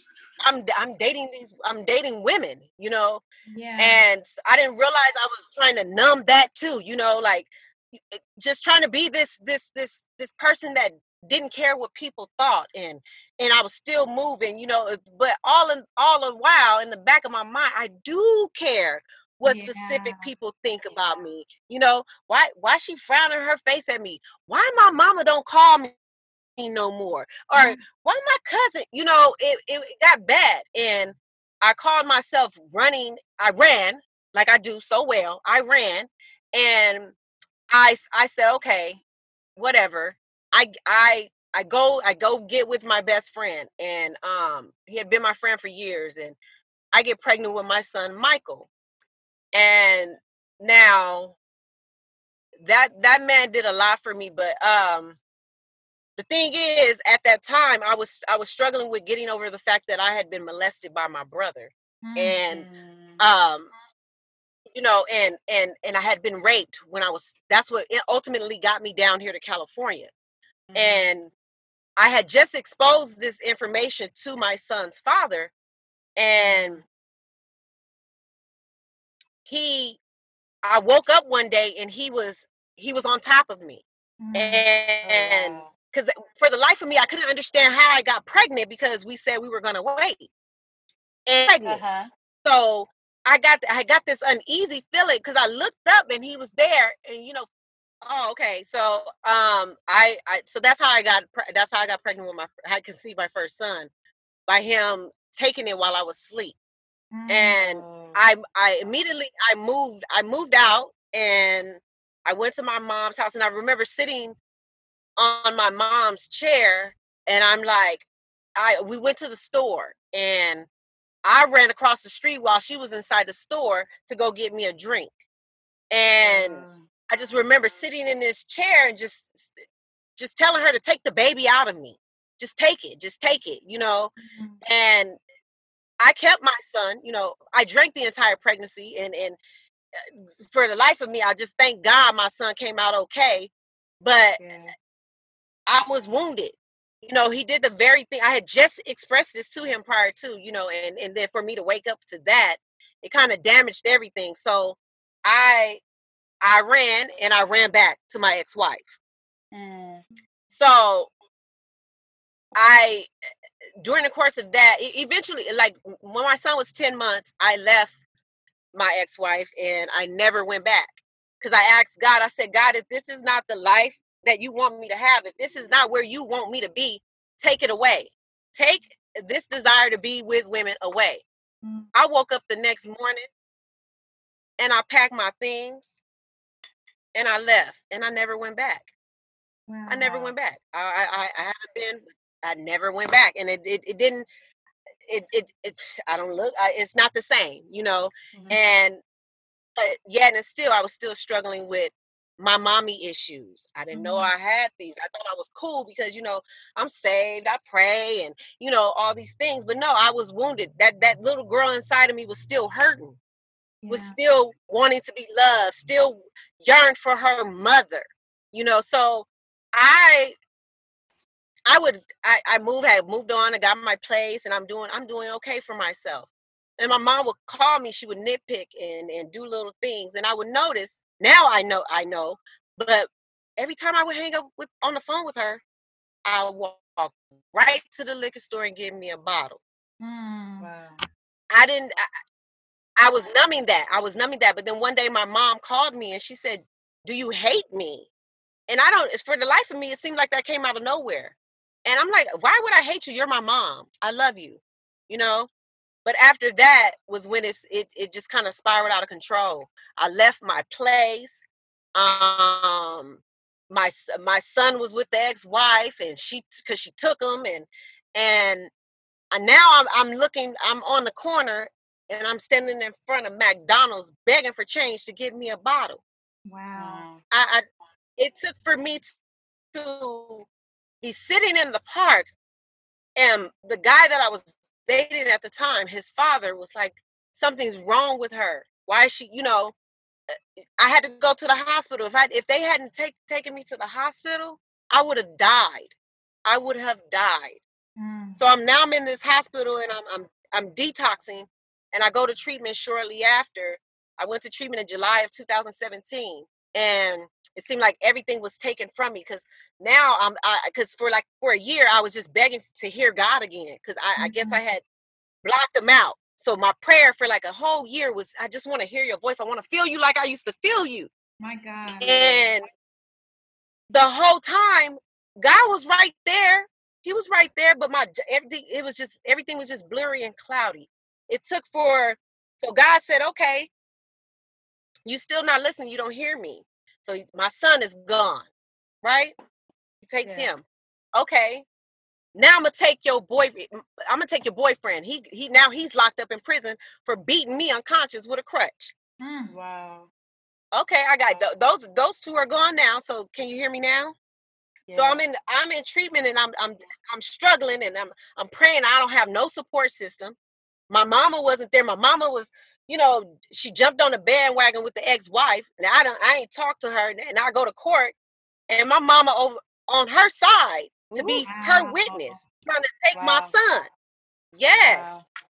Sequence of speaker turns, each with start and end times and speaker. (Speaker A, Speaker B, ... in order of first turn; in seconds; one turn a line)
Speaker A: 0.4-3.2
Speaker B: 3.5-4.0
Speaker A: 3.8-25.9
Speaker B: 19.4-20.3
Speaker A: 26.6-37.1
Speaker B: 27.5-27.8
Speaker A: 37.7-39.0
Speaker A: 39.5-46.4
Speaker A: 46.9-48.7
Speaker A: 49.5-51.3
Speaker A: 52.6-55.2
Speaker A: 56.2-62.7
Speaker B: 62.0-62.4
Speaker C: 62.5-63.2
Speaker A: 63.2-63.7
Speaker A: 64.7-70.1
Speaker C: 70.7-71.1
Speaker A: 70.7-71.3
Speaker A: 72.0-75.5
Speaker A: 76.2-76.8
Speaker C: 76.4-76.8
Speaker A: 79.5-80.0
Speaker A: 80.6-83.8
Speaker B: 84.2-84.7
Speaker A: 84.3-90.3
Speaker C: 85.0-85.7
Speaker A: 91.3-91.8
Speaker C: 91.7-92.1
Speaker A: 92.4-97.5
Speaker A: 98.0-103.9
Speaker A: 104.5-106.5
Speaker B: 107.1-107.6
Speaker A: 107.3-114.4
Speaker C: 107.6-108.2
Speaker A: 115.2-118.0
Speaker A: 118.6-120.7
Speaker A: 121.2-125.2
Speaker A: 125.9-129.6
Speaker C: 126.2-126.9
Speaker A: 130.2-135.2
Speaker B: 134.2-134.6
Speaker A: 136.0-139.4
Speaker A: 139.9-144.4
Speaker C: 144.4-144.7
Speaker A: 145.7-155.8
Speaker A: 156.4-158.9
Speaker C: 159.5-160.0
Speaker A: 160.5-161.1
Speaker A: 162.5-163.1
Speaker A: 163.8-168.0
Speaker A: 168.7-181.2
Speaker B: 181.6-181.9
Speaker A: 181.9-183.3
Speaker A: 184.6-186.0
Speaker A: 187.1-188.9
Speaker B: 189.7-190.3
Speaker A: 189.9-194.3
Speaker A: 195.1-199.0
Speaker C: 198.3-198.6
Speaker A: 199.8-213.2
Speaker B: 203.9-204.3
Speaker B: 213.8-214.2
Speaker A: 213.9-220.3
Speaker A: 221.7-235.6
Speaker A: 236.2-239.6
Speaker B: 240.0-240.7
Speaker C: 240.6-241.0
Speaker A: 241.5-242.0
Speaker A: 243.0-248.1
Speaker A: 248.7-251.3
Speaker A: 251.8-255.5
Speaker A: 256.0-268.7
Speaker A: 269.3-276.0
Speaker B: 276.5-277.0
Speaker C: 276.8-277.2
Speaker A: 277.3-277.6
Speaker A: 278.2-279.2
Speaker A: 279.7-280.5
Speaker A: 281.0-282.3
Speaker A: 283.1-289.7
Speaker A: 290.3-295.9
Speaker A: 296.4-297.6
Speaker B: 298.0-298.4
Speaker A: 298.4-314.8
Speaker B: 314.2-314.6
Speaker A: 315.4-321.1
Speaker B: 321.4-322.5
Speaker A: 322.0-322.7
Speaker A: 323.9-333.7
Speaker A: 335.1-338.5
Speaker A: 339.0-339.3
Speaker A: 340.0-340.6
Speaker C: 340.2-340.5
Speaker A: 341.1-341.6
Speaker A: 342.3-348.9
Speaker B: 349.2-349.5
Speaker C: 349.5-350.1
Speaker A: 350.7-354.1
Speaker C: 354.9-355.2
Speaker A: 354.9-360.4
Speaker A: 360.9-368.1
Speaker A: 368.7-373.9
Speaker C: 371.1-371.4
Speaker B: 371.4-372.4
Speaker C: 373.1-373.5
Speaker A: 374.5-375.1
Speaker C: 374.8-375.2